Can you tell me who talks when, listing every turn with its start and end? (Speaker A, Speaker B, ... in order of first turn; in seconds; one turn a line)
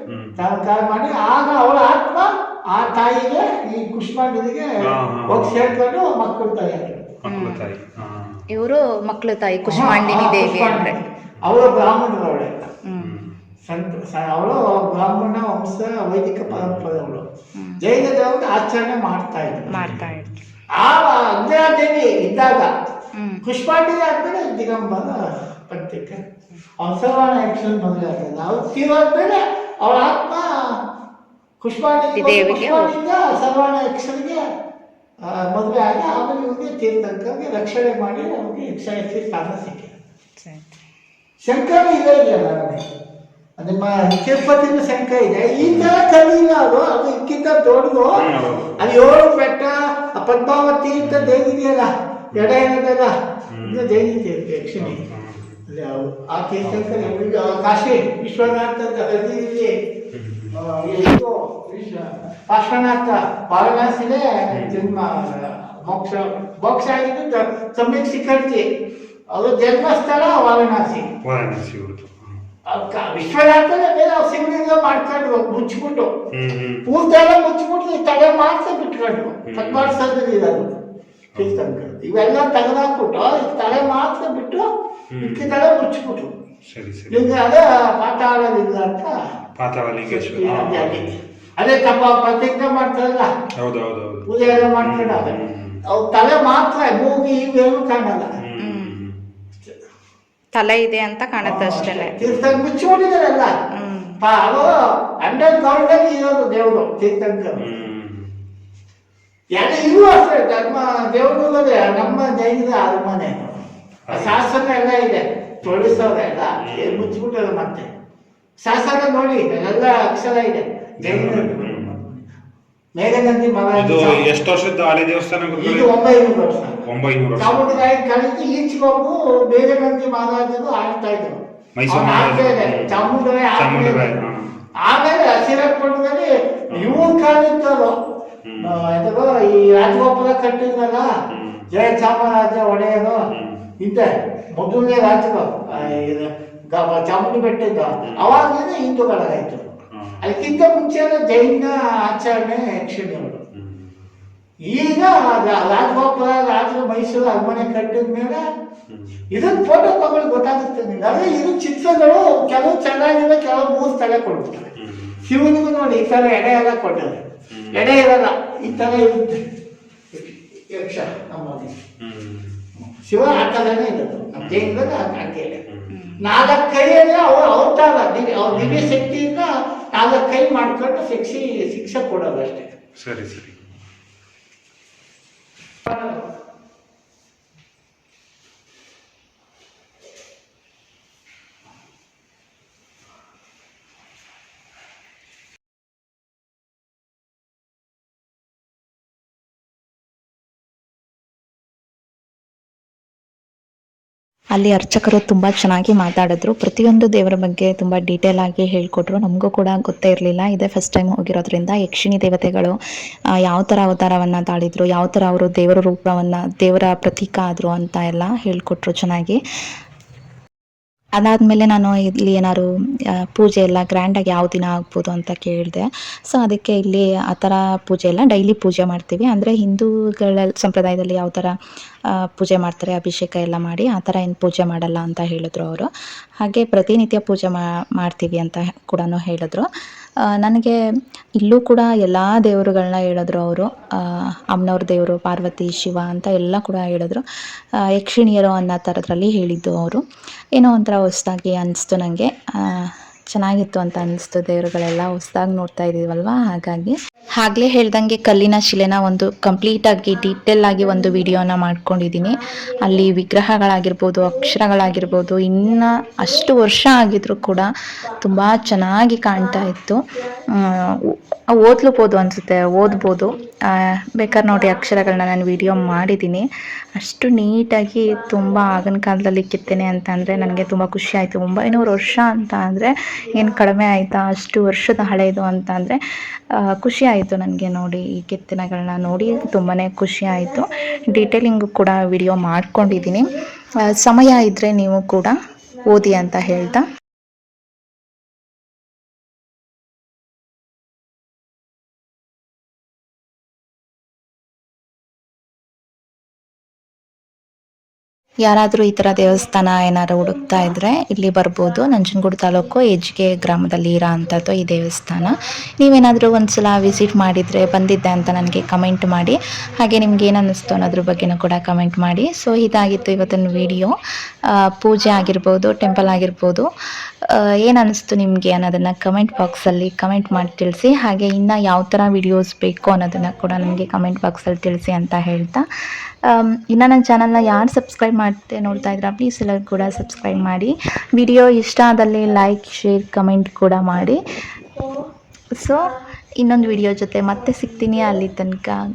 Speaker A: 0.1-0.5
Speaker B: 0.4-4.7
Speaker A: 4.9-5.8
Speaker B: 5.3-7.2
Speaker A: 7.2-8.4
Speaker C: 7.3-7.6
Speaker C: 8.5-11.0
Speaker B: 9.7-12.6
Speaker A: 11.4-11.7
Speaker C: 12.9-13.2
Speaker A: 13.0-13.4
Speaker B: 13.7-17.2
Speaker A: 16.5-17.0
Speaker C: 17.6-17.8
Speaker B: 17.8-19.8
Speaker C: 19.7-20.4
Speaker A: 19.8-20.3
Speaker B: 20.8-22.7
Speaker C: 23.2-23.4
Speaker B: 23.4-25.1
Speaker B: 25.7-26.2
Speaker B: 26.8-30.5
Speaker B: 31.6-34.4
Speaker C: 32.1-32.9
Speaker B: 35.2-40.0
Speaker C: 40.4-40.8
Speaker B: 41.4-42.8
Speaker B: 43.6-48.2
Speaker A: 45.6-46.0
Speaker A: 48.1-49.0
Speaker B: 48.8-53.1
Speaker A: 51.0-51.5
Speaker A: 52.3-52.6
Speaker A: 53.5-54.1
Speaker B: 53.6-55.0
Speaker A: 54.8-55.6
Speaker B: 55.7-59.7
Speaker A: 56.6-57.2
Speaker A: 60.1-60.6
Speaker B: 60.6-68.7
Speaker A: 64.5-64.9
Speaker B: 69.3-71.0
Speaker A: 71.2-72.4
Speaker B: 72.7-76.1
Speaker A: 76.3-76.9
Speaker B: 76.9-80.7
Speaker A: 79.5-80.0
Speaker A: 81.3-81.8
Speaker B: 81.4-84.6
Speaker A: 85.1-85.5
Speaker B: 85.2-86.3
Speaker A: 86.7-87.5
Speaker B: 87.1-89.1
Speaker A: 89.6-91.2
Speaker B: 90.1-93.3
Speaker A: 93.6-95.8
Speaker B: 94.3-95.3
Speaker B: 95.9-98.3
Speaker A: 98.4-99.2
Speaker C: 98.6-99.0
Speaker C: 100.5-102.2
Speaker B: 101.4-103.5
Speaker A: 102.2-102.6
Speaker C: 103.7-104.2
Speaker B: 104.2-104.7
Speaker B: 105.2-107.7
Speaker A: 107.6-108.3
Speaker B: 109.5-113.6
Speaker A: 114.1-114.5
Speaker B: 114.1-117.9
Speaker A: 115.6-116.1
Speaker A: 116.6-117.2
Speaker B: 118.6-122.2
Speaker A: 121.0-122.0
Speaker B: 123.0-124.3
Speaker A: 123.7-125.9
Speaker B: 125.6-126.8
Speaker A: 126.9-127.9
Speaker B: 127.4-131.3
Speaker A: 131.8-134.5
Speaker B: 131.9-134.1
Speaker B: 134.8-137.9
Speaker A: 136.7-137.2
Speaker A: 138.4-138.8
Speaker B: 138.7-141.1
Speaker A: 141.3-141.9
Speaker B: 141.7-143.2
Speaker A: 143.3-143.6
Speaker B: 143.8-149.7
Speaker A: 145.7-146.1
Speaker A: 148.1-148.4
Speaker A: 149.9-150.6
Speaker B: 150.3-153.4
Speaker A: 153.6-153.9
Speaker B: 154.7-158.4
Speaker A: 158.9-159.2
Speaker B: 159.3-164.7
Speaker A: 164.8-165.4
Speaker B: 165.3-167.2
Speaker A: 167.5-168.0
Speaker B: 167.7-169.4
Speaker A: 168.7-169.0
Speaker B: 170.1-171.7
Speaker A: 172.0-172.6
Speaker B: 172.9-175.6
Speaker A: 174.4-174.9
Speaker C: 175.9-176.5
Speaker B: 176.2-182.7
Speaker A: 178.5-179.1
Speaker A: 183.0-183.6
Speaker B: 185.9-186.2
Speaker C: 204.5-212.8
Speaker C: 213.5-219.4
Speaker C: 221.2-222.7
Speaker C: 223.3-231.5
Speaker C: 232.2-235.9
Speaker C: 236.4-239.7
Speaker C: 240.4-240.7
Speaker C: 241.4-247.2
Speaker C: 247.9-250.0
Speaker C: 250.6-270.0
Speaker C: 270.5-270.9
Speaker C: 271.6-273.4
Speaker C: 274.2-276.5
Speaker C: 277.0-286.0
Speaker C: 286.7-296.9
Speaker C: 308.4-323.9
Speaker C: 324.8-326.6
Speaker C: 327.6-335.6
Speaker C: 336.3-344.2
Speaker C: 345.6-348.8